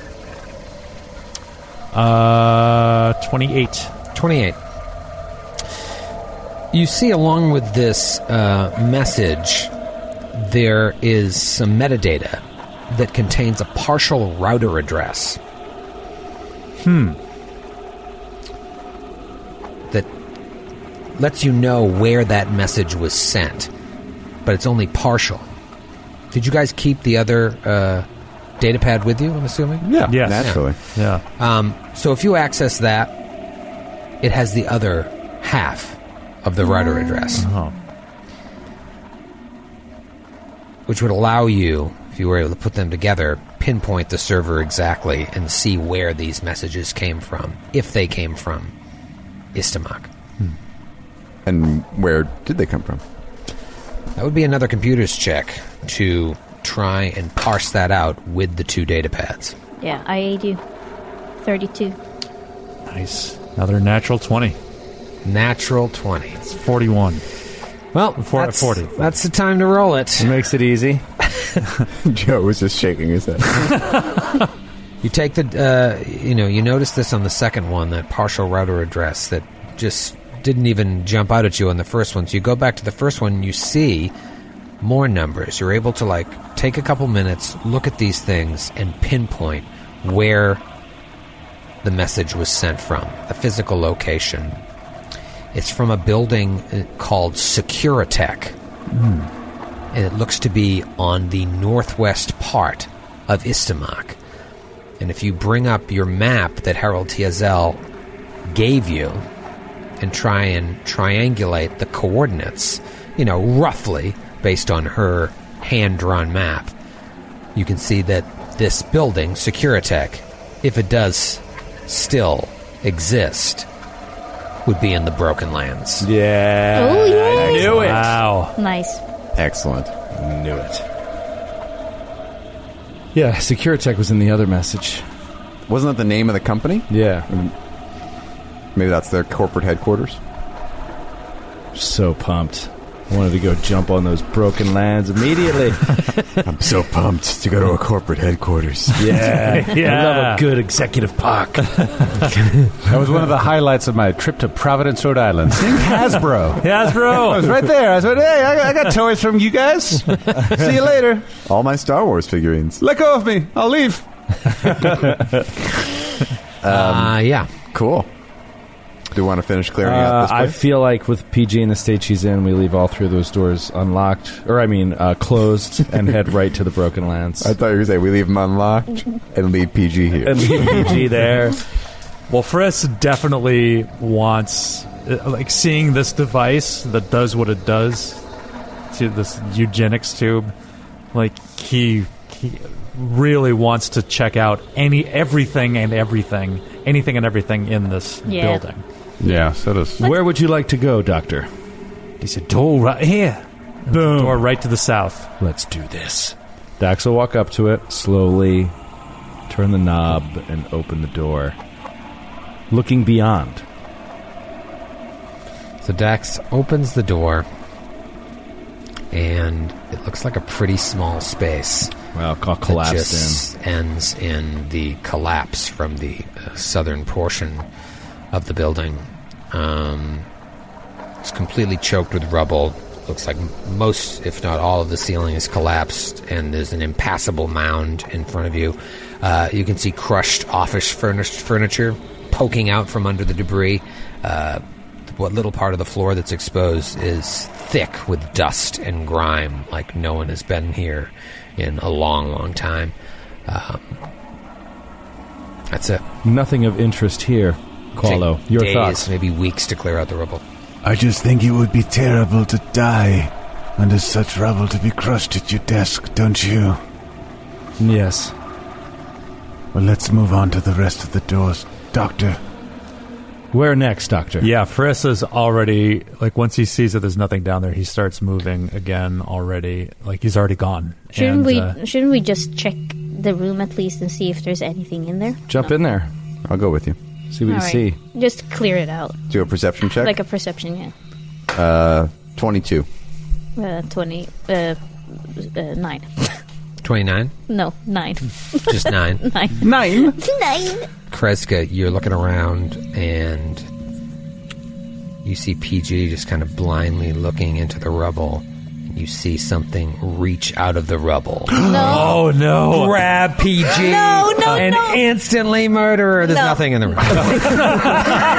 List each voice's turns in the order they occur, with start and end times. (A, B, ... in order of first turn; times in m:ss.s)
0:01.9-0:03.9 A
0:04.1-0:04.6 B
0:06.7-0:09.7 B
0:10.3-0:15.4 B
0:16.8-0:17.2 A
0:21.2-0:23.7 B
0:24.4-0:25.5 B
0:26.3-0:28.1 B
0:28.6-0:30.7 B
0:29.8-0:30.8 C
0:30.1-0:31.2 A
0:31.4-0:33.1 B
0:34.2-0:37.5 B
0:37.4-0:37.7 A
0:40.9-0:48.7 B
0:49.5-0:50.1 B
0:51.5-0:53.0 C
0:54.2-0:59.6 B
0:59.8-1:00.6 D
1:01.4-1:02.0 D
1:02.9-1:04.6 A
1:05.2-1:06.4 B
1:06.4-1:07.2 A
1:07.9-1:10.4 B
1:08.2-1:09.1 A
1:10.2-1:11.0 E
1:12.0-1:13.8 C
1:15.0-1:24.1 B
1:24.8-1:30.6 B
1:31.8-1:34.6 B
1:35.5-1:38.6 B
1:38.9-1:39.3 A
1:39.9-1:44.2 B
1:45.0-1:47.8 B
1:48.5-1:49.2 B
1:50.0-1:56.7 B
1:57.6-2:03.7 B
2:04.6-2:06.1 B
2:06.0-2:08.2 E
2:06.7-2:09.0 D
2:07.7-2:08.6 A
2:09.4-2:09.9 C
2:10.1-2:10.8 E
2:13.1-2:15.0 E
2:15.7-2:17.5 C
2:16.9-2:17.3 E
2:18.8-2:20.2 C
2:21.7-2:26.0 E
2:26.4-2:29.2 C
2:29.0-2:32.2 E
2:29.3-2:30.5 A
2:32.9-2:41.2 F
2:36.6-2:37.6 A
2:41.5-2:42.8 C
2:42.8-2:44.0 F
2:44.9-2:45.2 E
2:46.6-2:48.1 C
2:46.7-2:47.5 B
2:49.1-2:50.6 C
2:49.8-2:57.5 E
2:57.4-3:01.0 C
3:00.3-3:01.6 E
3:02.3-3:08.2 A
3:08.9-3:10.5 A
3:11.1-3:18.8 A
3:18.3-3:18.6 D
3:19.2-3:20.0 F
3:20.0-3:21.5 E
3:22.2-3:25.3 A
3:23.9-3:24.4 E
3:25.4-3:28.7 E
3:29.5-3:31.6 E
3:32.7-3:33.6 E
3:35.8-3:37.5 B
3:39.1-3:42.0 B
3:42.1-3:43.4 E
3:42.7-3:47.7 B
3:48.3-3:50.3 B
3:51.2-4:12.9 B
4:13.5-4:13.9 B
4:15.7-4:16.0 B
4:16.2-4:19.1 E
4:18.0-4:20.4 B
4:20.8-4:26.8 G
4:27.8-4:28.3 E
4:29.7-4:32.4 G
4:33.5-4:34.5 E
4:34.4-4:41.8 A
4:41.2-4:45.7 D
4:45.5-4:46.1 E
4:46.5-4:47.0 C
4:47.3-4:48.0 E
4:47.5-4:49.2 D
4:49.3-4:50.2 C
4:50.0-4:50.9 D
4:51.5-4:52.9 C
4:53.6-4:54.8 D
4:55.4-4:56.4 D
4:56.8-4:57.3 B
4:57.5-5:00.9 D
4:58.7-4:59.2 B
4:59.6-5:00.2 F
5:01.1-5:03.6 B
5:05.2-5:18.2 B
5:11.6-5:12.2 D
5:11.8-5:13.0 A
5:13.7-5:15.0 D
5:16.2-5:17.2 D